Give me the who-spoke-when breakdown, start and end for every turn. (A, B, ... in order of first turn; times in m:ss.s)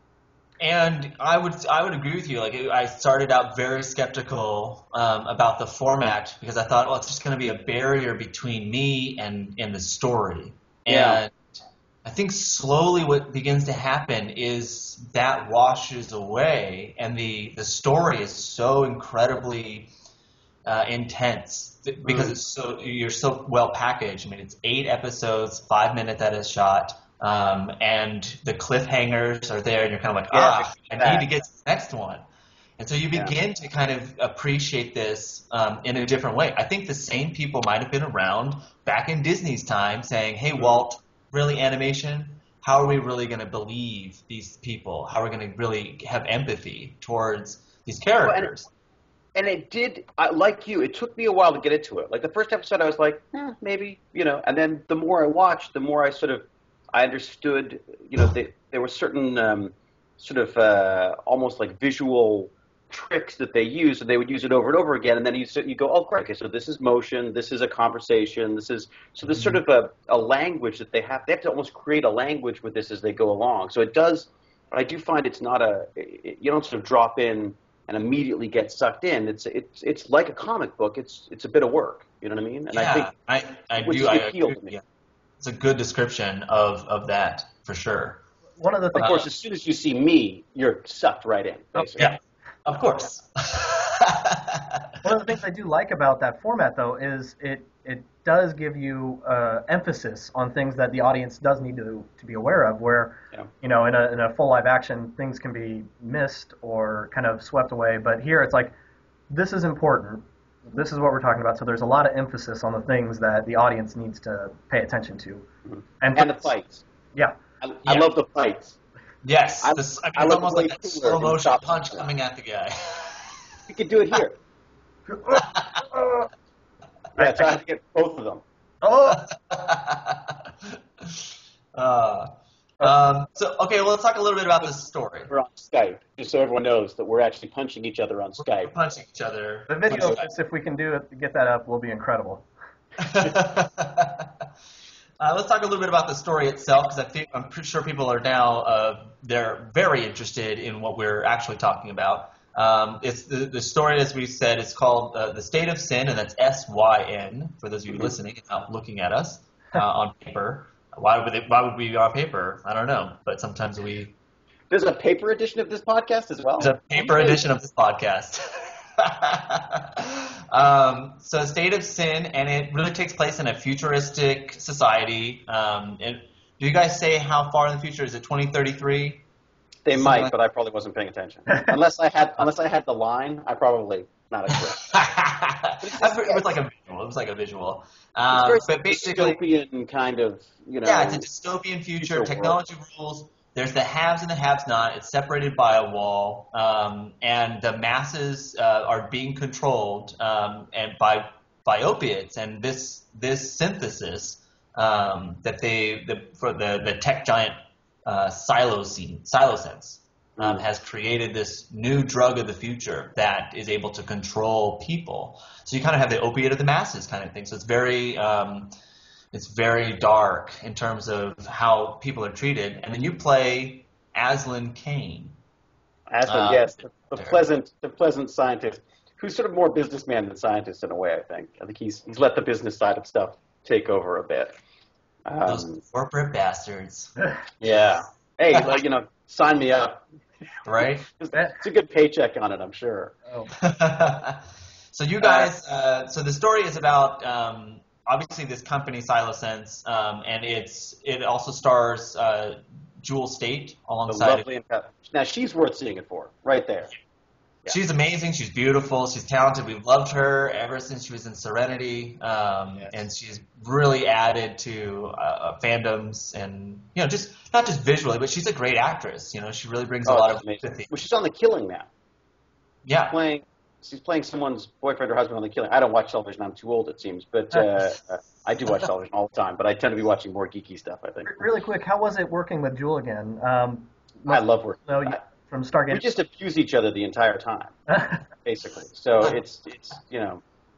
0:00.6-0:11.4 A
0:10.9-0:11.2 B
0:12.0-0:19.9 A
0:20.6-0:32.2 A
0:22.0-0:22.4 B
0:30.3-0:31.3 B
0:32.8-0:48.7 A
0:40.6-0:40.8 B
0:48.2-0:48.5 B
0:49.4-1:23.1 B
1:09.3-1:09.6 A
1:22.7-1:24.8 A
1:23.8-1:24.8 B
1:25.4-1:28.2 A
1:28.6-1:29.2 C
1:28.9-1:32.2 B
1:29.0-1:29.2 A
1:32.0-1:35.1 A
1:35.0-1:48.7 C
1:49.3-1:55.5 C
1:55.7-1:56.8 B
1:56.0-1:56.5 C
1:57.6-1:58.8 B
1:59.2-2:03.4 A
1:59.6-2:02.1 B
2:03.7-2:04.4 B
2:05.1-2:06.3 C
2:05.3-2:05.8 A
2:07.2-2:07.6 C
2:07.2-2:08.4 B
2:08.8-2:09.2 C
2:09.1-2:15.3 A
2:15.3-2:18.7 B
2:18.4-2:20.3 A
2:19.7-2:22.4 C
2:19.9-2:20.2 B
2:23.0-2:24.5 A
2:25.2-2:44.1 A
2:44.7-2:47.4 B
2:46.6-2:59.2 A
2:59.8-3:04.9 B
3:00.0-3:00.3 A
3:04.5-3:09.4 A
3:05.8-3:06.6 B
3:08.3-3:11.3 B
3:10.8-3:38.7 A
3:12.0-3:12.6 B
3:30.4-3:30.6 B
3:39.3-3:45.4 A
3:46.1-3:54.5 B
3:46.3-3:47.4 A
3:55.3-3:55.8 B
3:55.5-3:57.1 A
3:57.6-4:00.0 B
4:00.6-4:01.1 A
4:00.8-4:03.1 B
4:03.3-4:03.5 C
4:03.6-4:14.5 A
4:05.2-4:05.5 B
4:14.1-4:16.9 B
4:17.7-4:30.9 A
4:30.1-4:31.9 B
4:32.8-4:33.1 A
4:33.1-4:41.5 B
4:41.2-4:46.0 C
4:44.3-4:45.2 B
4:45.9-4:47.8 B
4:47.9-4:48.2 C
4:48.4-4:50.4 B